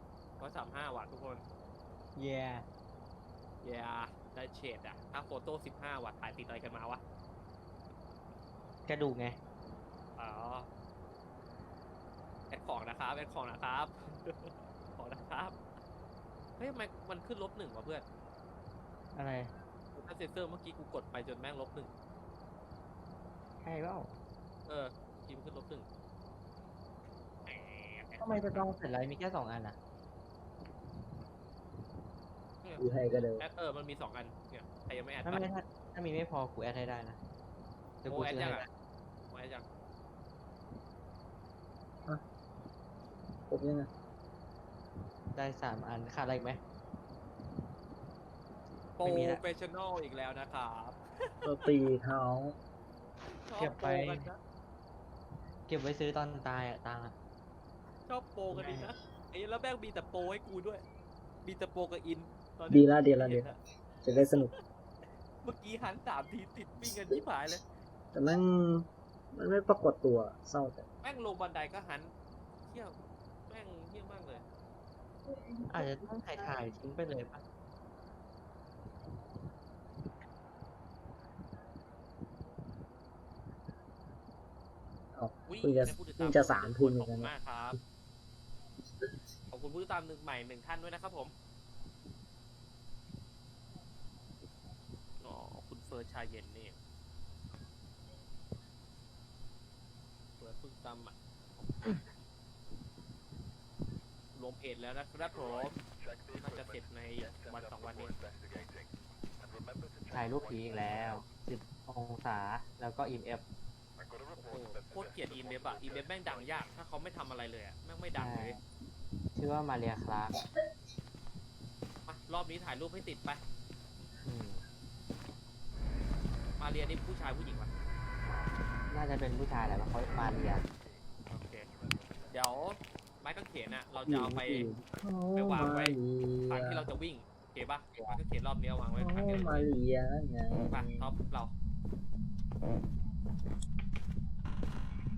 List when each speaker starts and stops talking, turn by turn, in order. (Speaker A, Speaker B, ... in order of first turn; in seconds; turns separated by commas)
Speaker A: 0.4-1.4, Speaker B: 2.1-2.6, Speaker A: 3.6-7.0, Speaker B: 8.8-9.4, Speaker A: 10.2-10.7, Speaker A: 12.5-15.6, Speaker A: 16.6-18.0, Speaker B: 19.1-19.5, Speaker A: 19.9-21.9, Speaker B: 23.6-24.2, Speaker A: 24.6-25.9, Speaker A: 27.4-28.6, Speaker B: 28.2-29.8, Speaker A: 32.6-35.5, Speaker C: 32.8-33.4, Speaker B: 35.2-37.2, Speaker B: 38.0-38.7, Speaker A: 38.1-38.6, Speaker A: 39.3-39.7, Speaker C: 43.5-43.9, Speaker B: 45.3-46.6, Speaker B: 48.9-49.4, Speaker A: 49.0-51.0, Speaker C: 51.4-52.5, Speaker A: 53.4-54.4, Speaker B: 53.5-54.2, Speaker B: 55.7-57.1, Speaker A: 58.0-60.8, Speaker B: 58.5-58.9, Speaker A: 61.4-63.6, Speaker C: 62.7-63.5, Speaker C: 64.0-64.5, Speaker A: 64.3-64.6, Speaker A: 65.4-67.6, Speaker C: 68.1-70.8, Speaker A: 71.0-72.1, Speaker A: 72.7-74.4, Speaker B: 75.7-77.4, Speaker C: 85.2-87.3, Speaker A: 85.5-87.8, Speaker A: 89.5-91.3, Speaker A: 95.2-96.8, Speaker A: 100.4-101.2, Speaker A: 104.3-105.8, Speaker A: 106.3-108.1, Speaker B: 110.1-113.4, Speaker A: 114.4-118.6, Speaker B: 118.2-118.6, Speaker B: 119.3-120.4, Speaker A: 122.0-123.4, Speaker B: 124.2-124.6, Speaker A: 126.6-127.7, Speaker B: 128.9-130.6, Speaker A: 131.3-131.7, Speaker A: 132.3-134.7, Speaker B: 134.1-134.8, Speaker C: 134.9-136.8, Speaker A: 135.3-135.9, Speaker A: 136.5-139.7, Speaker C: 139.0-141.1, Speaker A: 140.7-141.5